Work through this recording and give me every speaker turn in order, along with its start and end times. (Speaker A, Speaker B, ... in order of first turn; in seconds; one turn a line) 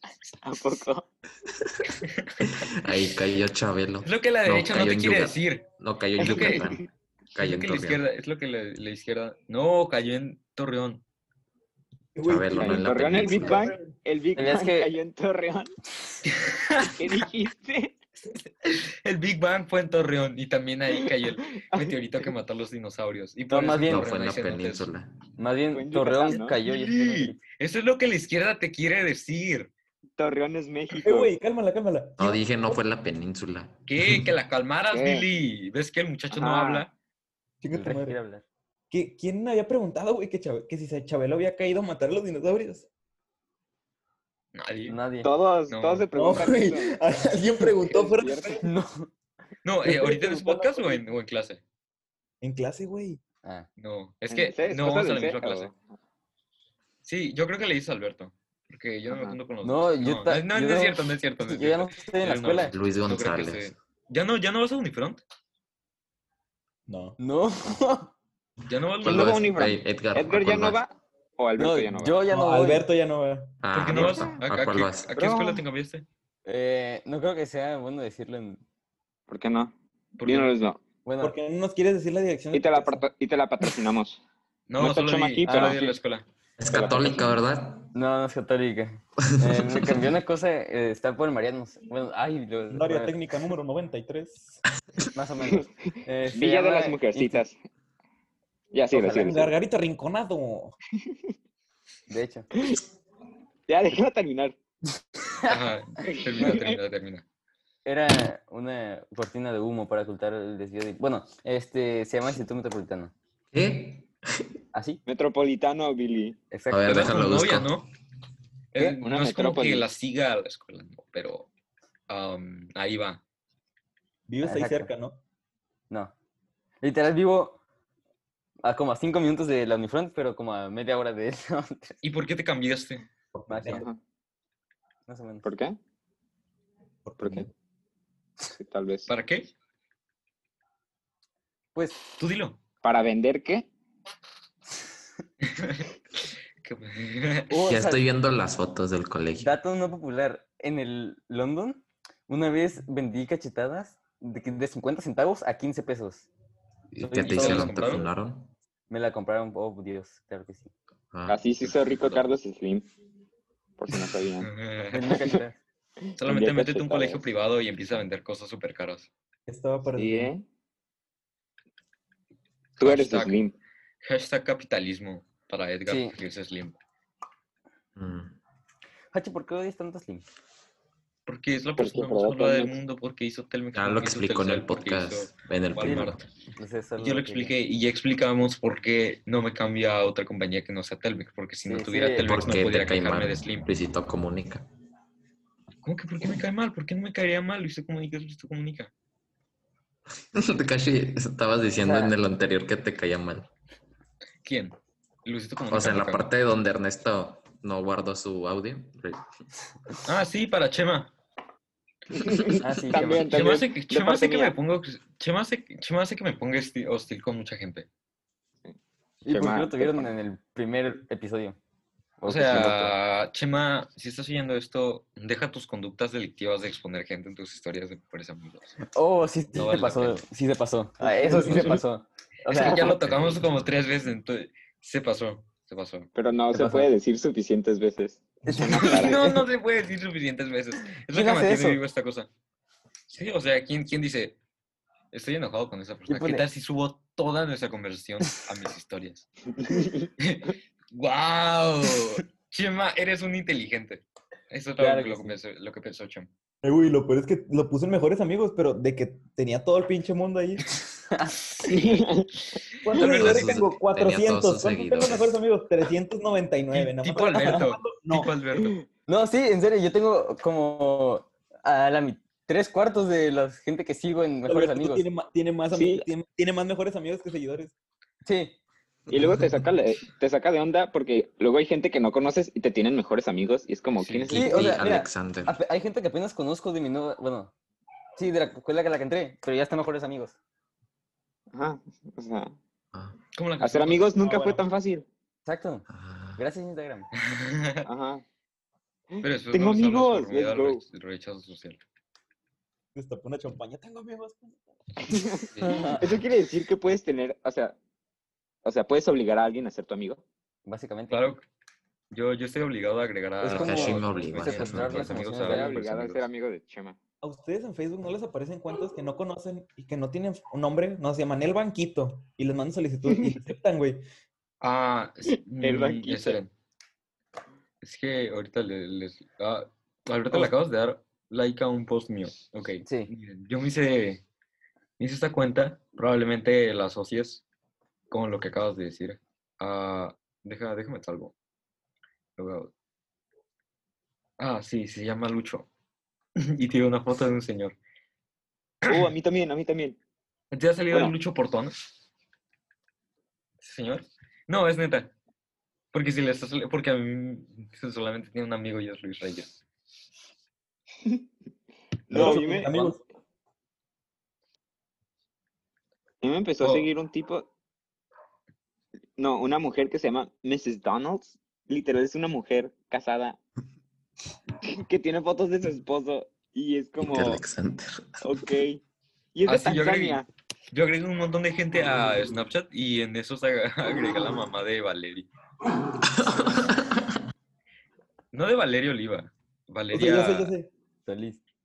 Speaker A: 0.4-1.0
Speaker B: 2.0-2.3
Speaker C: 2.4-8.0
Speaker B: 4.0-5.7
Speaker A: 6.2-6.9
Speaker B: 6.2-6.6
Speaker B: 7.4-11.0
Speaker D: 12.1-13.9
Speaker C: 12.2-13.7
Speaker A: 12.6-15.7
Speaker E: 14.3-14.9
Speaker B: 16.3-16.9
Speaker A: 16.8-17.9
Speaker B: 18.6-24.9
Speaker A: 21.5-21.9
Speaker E: 23.5-24.1
Speaker C: 23.9-25.1
Speaker E: 25.4-27.4
Speaker A: 25.7-26.6
Speaker B: 26.6-29.7
Speaker A: 30.2-31.3
Speaker D: 31.0-32.4
Speaker C: 32.2-34.3
Speaker B: 33.9-36.9
Speaker A: 34.9-35.2
Speaker A: 36.3-36.8
Speaker D: 37.6-38.2
Speaker E: 37.7-38.4
Speaker D: 38.9-42.9
Speaker B: 44.5-45.0
Speaker E: 44.9-45.3
Speaker A: 45.2-46.9
Speaker B: 45.7-46.1
Speaker D: 46.1-48.6
Speaker A: 47.8-48.6
Speaker E: 48.6-49.1
Speaker B: 49.6-51.6
Speaker D: 49.8-51.0
Speaker D: 52.4-53.2
Speaker B: 53.8-55.7
Speaker A: 54.3-55.8
Speaker B: 57.0-65.2
Speaker A: 59.1-59.4
Speaker E: 59.6-62.7
Speaker C: 62.7-63.7
Speaker D: 66.9-67.2
Speaker E: 67.2-68.1
Speaker B: 68.7-69.5
Speaker C: 69.0-70.8
Speaker A: 69.0-72.2
Speaker E: 71.6-72.8
Speaker D: 72.3-73.6
Speaker C: 73.6-75.1
Speaker B: 73.7-76.0
Speaker A: 74.0-74.4
Speaker A: 75.1-75.6
Speaker E: 76.4-78.6
Speaker A: 79.3-79.7
Speaker B: 80.2-80.5
Speaker A: 80.2-80.8
Speaker E: 81.0-81.3
Speaker D: 81.2-83.0
Speaker A: 82.5-84.2
Speaker B: 84.7-86.3
Speaker A: 84.8-86.0
Speaker C: 86.6-87.8
Speaker A: 86.7-87.2
Speaker E: 87.9-93.2
Speaker C: 89.4-90.0
Speaker D: 92.7-94.6
Speaker E: 95.1-97.4
Speaker A: 96.3-97.6
Speaker A: 98.7-99.5
Speaker D: 98.9-100.7
Speaker E: 102.1-102.5
Speaker A: 103.7-104.5
Speaker B: 105.5-107.2
Speaker A: 106.1-106.7
Speaker E: 107.8-113.1
Speaker C: 113.5-114.5
Speaker E: 114.7-115.0
Speaker A: 115.1-116.4
Speaker E: 116.5-117.2
Speaker C: 116.7-117.8
Speaker B: 116.8-117.9
Speaker B: 118.7-121.5
Speaker A: 118.8-119.8
Speaker B: 122.1-123.2
Speaker D: 124.3-125.2
Speaker E: 124.4-124.9
Speaker E: 126.8-127.6
Speaker E: 128.6-132.0
Speaker B: 132.0-133.1
Speaker D: 133.3-133.9
Speaker E: 133.5-133.9
Speaker A: 133.7-134.0
Speaker E: 135.1-135.5
Speaker A: 135.4-135.8
Speaker D: 137.1-137.5
Speaker A: 137.2-137.5
Speaker A: 138.5-139.1
Speaker B: 139.1-139.5
Speaker E: 141.7-142.0
Speaker B: 142.2-142.6
Speaker A: 142.8-143.7
Speaker B: 145.4-145.8
Speaker B: 146.6-147.5
Speaker E: 147.5-148.0
Speaker C: 147.5-149.5
Speaker E: 149.4-156.3
Speaker C: 156.9-158.5
Speaker E: 157.0-157.8
Speaker B: 157.2-158.1
Speaker E: 158.9-160.7
Speaker C: 161.1-162.2
Speaker A: 161.3-162.9
Speaker A: 163.8-164.5
Speaker B: 164.4-165.0
Speaker E: 164.9-165.6
Speaker A: 165.1-165.4
Speaker A: 166.1-167.2
Speaker B: 166.2-169.1
Speaker D: 169.5-170.3
Speaker A: 169.9-170.4
Speaker B: 172.8-173.4
Speaker A: 172.8-173.5
Speaker B: 174.0-176.8
Speaker E: 175.9-176.1
Speaker C: 177.9-178.4
Speaker E: 179.1-180.2
Speaker B: 181.3-186.2
Speaker A: 181.8-182.7
Speaker C: 183.7-186.2
Speaker E: 185.8-187.5
Speaker B: 187.0-193.7
Speaker E: 191.6-192.4
Speaker C: 192.2-194.7
Speaker B: 195.8-198.9
Speaker C: 200.3-203.5
Speaker E: 201.8-202.1
Speaker B: 204.4-206.3
Speaker C: 205.7-209.2
Speaker B: 210.0-211.1
Speaker A: 212.1-214.5
Speaker E: 212.6-213.4
Speaker B: 213.2-217.9
Speaker E: 219.2-221.6
Speaker A: 219.3-220.1
Speaker E: 222.2-222.9
Speaker B: 222.3-228.8
Speaker E: 228.9-233.0
Speaker B: 229.5-230.2
Speaker B: 231.3-231.8
Speaker B: 232.5-236.1
Speaker C: 232.7-233.7
Speaker A: 236.1-239.2
Speaker E: 236.5-236.9
Speaker E: 238.4-239.4
Speaker B: 238.8-242.3
Speaker E: 241.1-241.8
Speaker B: 243.1-244.4
Speaker B: 245.1-249.3
Speaker E: 246.1-246.4
Speaker A: 249.6-250.1
Speaker B: 250.2-256.3
Speaker E: 254.8-255.3
Speaker D: 256.6-260.6
Speaker E: 261.1-261.4
Speaker A: 261.6-262.3
Speaker D: 262.8-268.3
Speaker B: 262.9-263.6
Speaker C: 263.0-265.4
Speaker B: 266.7-268.8
Speaker A: 268.5-268.8
Speaker E: 269.1-275.1
Speaker D: 274.5-277.7
Speaker A: 275.7-276.1
Speaker E: 278.2-278.5
Speaker A: 279.1-284.7
Speaker B: 284.0-284.6
Speaker C: 284.1-285.6
Speaker E: 284.3-287.5
Speaker E: 288.1-290.4
Speaker A: 291.5-292.5
Speaker B: 293.3-294.1
Speaker A: 293.6-295.1
Speaker D: 294.2-294.6
Speaker E: 295.4-295.9
Speaker C: 295.9-296.4
Speaker E: 296.4-297.1
Speaker B: 297.2-297.8
Speaker A: 297.8-298.2
Speaker A: 299.1-300.8
Speaker B: 299.2-301.8
Speaker D: 302.9-304.6
Speaker A: 305.1-307.8
Speaker E: 305.6-306.1
Speaker A: 308.6-310.2
Speaker E: 310.6-311.4
Speaker B: 311.1-311.4
Speaker B: 312.1-316.2
Speaker E: 313.4-315.7
Speaker C: 313.4-315.2
Speaker A: 315.4-317.0
Speaker D: 317.2-324.0
Speaker A: 323.1-323.4
Speaker B: 324.6-326.5
Speaker A: 325.3-326.4
Speaker B: 327.8-334.2
Speaker E: 332.8-333.1
Speaker B: 335.0-337.4
Speaker B: 338.1-341.3
Speaker B: 342.4-342.7
Speaker B: 344.4-345.7
Speaker B: 346.4-347.8
Speaker A: 348.9-350.0
Speaker B: 350.5-351.8
Speaker B: 353.6-355.1
Speaker B: 355.9-359.6
Speaker A: 362.1-363.0
Speaker D: 362.1-363.0
Speaker E: 362.2-362.7
Speaker A: 366.2-367.5
Speaker B: 366.6-366.9
Speaker A: 369.2-373.4
Speaker A: 374.6-377.4
Speaker C: 377.0-378.3
Speaker A: 378.2-378.8
Speaker A: 379.3-380.3
Speaker B: 379.4-385.3
Speaker C: 386.0-387.1
Speaker B: 388.3-390.5
Speaker D: 389.9-390.7
Speaker E: 391.1-391.4